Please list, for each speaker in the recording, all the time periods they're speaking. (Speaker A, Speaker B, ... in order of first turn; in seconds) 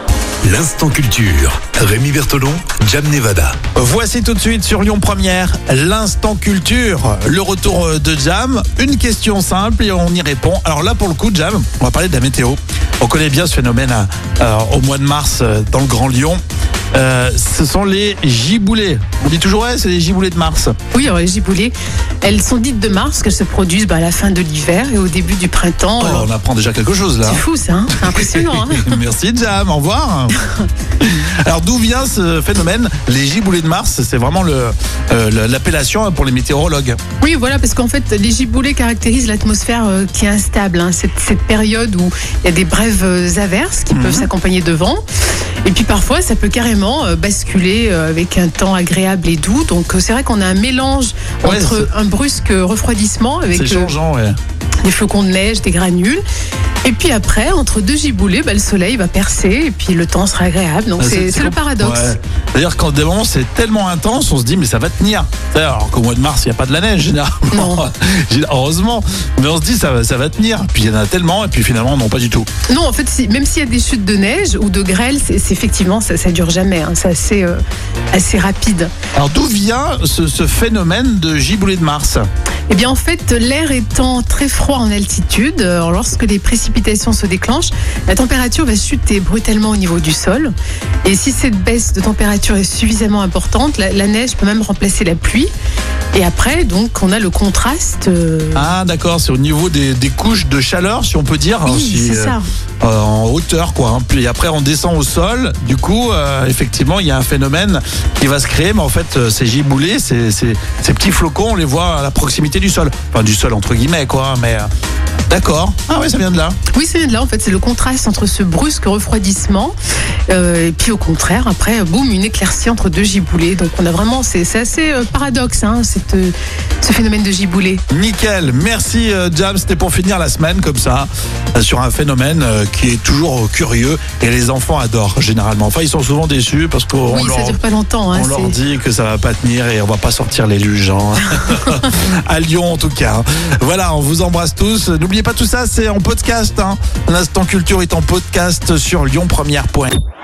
Speaker A: 0.5-3.6
Speaker B: 3.8-16.4, 16.9-20.8, 26.0-27.4, 27.9-30.4, 31.0-37.0, 43.9-44.3, 51.4-51.9, 53.5-54.4, 61.0-72.5, 79.2-82.2, 98.5-114.7, 115.3-116.6, 127.9-137.6, 138.1-149.9
Speaker C: 20.9-26.3, 27.2-29.0, 37.2-45.0, 45.6-54.0, 54.8-56.2, 56.9-62.2, 67.5-67.8, 72.7-77.6, 78.1-78.9, 82.7-95.5, 96.1-98.7, 101.7-102.5, 116.7-119.7, 120.3-127.8, 137.1-138.6